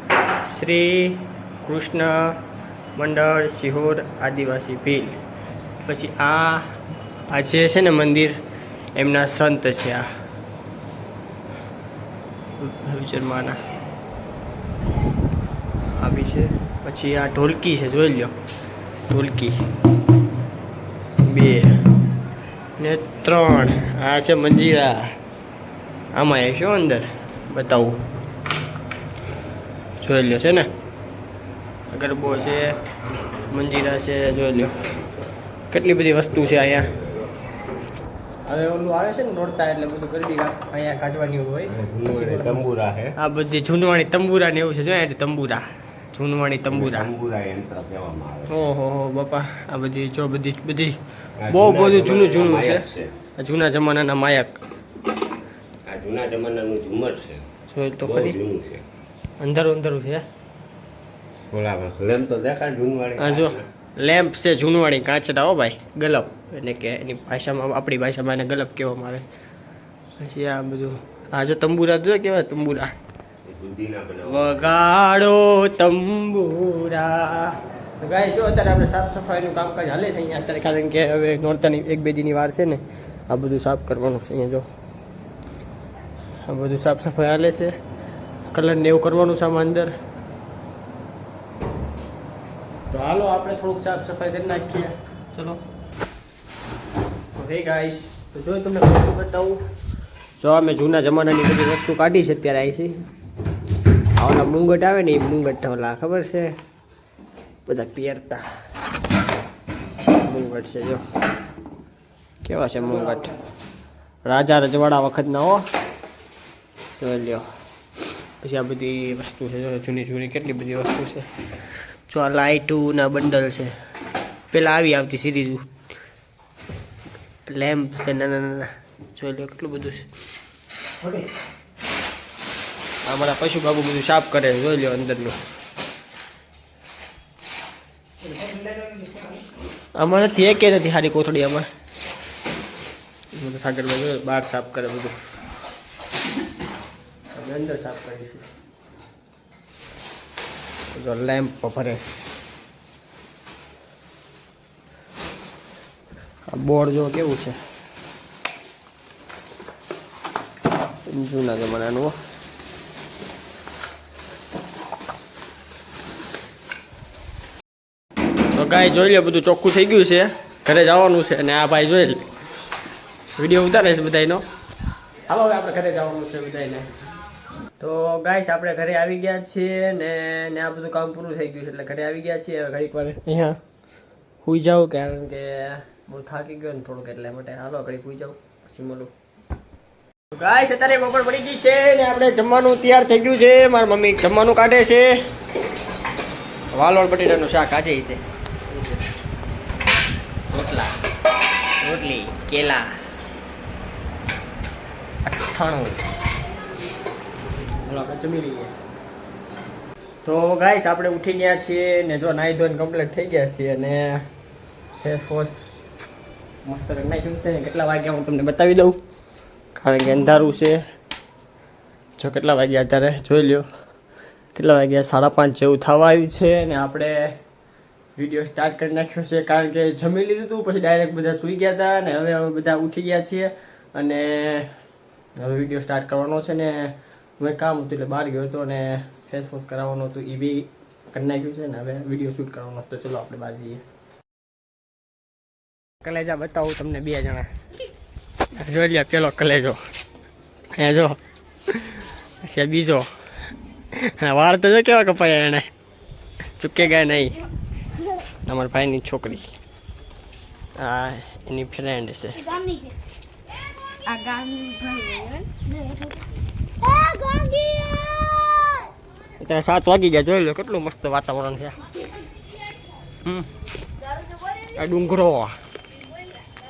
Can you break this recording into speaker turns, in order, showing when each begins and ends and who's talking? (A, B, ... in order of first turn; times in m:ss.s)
0:00.4-0:02.4 A
0:03.0-0:05.2 A
0:05.8-0:06.7 A
0:07.3-0:08.4 A
0:08.9-0:10.1 A
0:12.6-0:13.6 A
0:16.0-0:18.3 A
0:19.1-0:19.6 A
0:21.2-0:21.9 A
0:22.8-0:25.2 A
0:26.1-0:28.0 A
0:30.0-0:30.7 A
0:31.9-0:32.8 A
0:33.5-0:34.7 A
0:35.7-0:36.9 A
0:38.4-0:42.6 A
0:41.7-0:43.2 B
0:43.2-0:47.1 A
0:46.7-0:48.6 B
0:48.5-0:51.0 A
0:51.4-0:53.1 B
0:51.5-0:52.9 A
0:53.4-0:54.6 A
0:55.8-0:57.4 B
0:57.7-0:58.4 A
0:58.0-0:58.8 B
0:59.4-1:00.2 A
1:01.5-1:03.6 B
1:03.2-1:09.3 A
1:10.2-1:12.9 A
1:13.4-1:14.6 B
1:14.2-1:24.7 A
1:26.5-1:27.8 A
1:28.5-1:30.0 A
1:32.9-1:35.6 A
1:37.3-1:39.6 A
1:40.4-1:43.0 A
1:44.2-1:46.6 A
1:47.6-1:48.4 A
1:50.2-1:51.0 A
1:52.4-1:53.3 A
1:54.2-1:55.7 A
1:57.0-1:57.4 A
1:58.4-2:01.3 A
2:02.1-2:03.8 A
2:04.5-2:05.7 A
2:07.5-2:10.1 A
2:13.1-2:15.4 A
2:18.2-2:19.2 A
2:20.0-2:21.7 A
2:23.3-2:25.2 A
2:27.3-2:28.5 A
2:30.9-2:32.4 A
2:36.5-2:37.6 A
2:41.1-2:42.2 A
2:48.5-2:52.2 A
2:53.4-2:54.4 A
2:55.3-2:56.9 A
2:57.8-3:03.6 A
3:04.4-3:09.1 A
3:10.3-3:15.2 A
3:16.7-3:19.0 A
3:20.5-3:20.9 A
3:21.8-3:23.0 A
3:25.2-3:26.0 A
3:27.8-3:28.7 A
3:30.2-3:34.3 A
3:35.0-3:35.7 A
3:36.6-3:39.0 A
3:39.8-3:40.8 A
3:42.2-3:43.6 A
3:44.6-3:47.3 A
3:48.2-3:54.8 A
3:55.4-4:03.8 A
4:06.0-4:07.5 A
4:08.5-4:09.8 A
4:10.8-4:11.2 A
4:11.7-4:13.1 A
4:13.9-4:15.7 A
4:16.6-4:17.4 A
4:18.4-4:19.5 A
4:20.8-4:22.6 A
4:24.0-4:26.1 C
4:26.8-4:28.8 C
4:29.4-4:31.8 A
4:34.7-4:35.6 A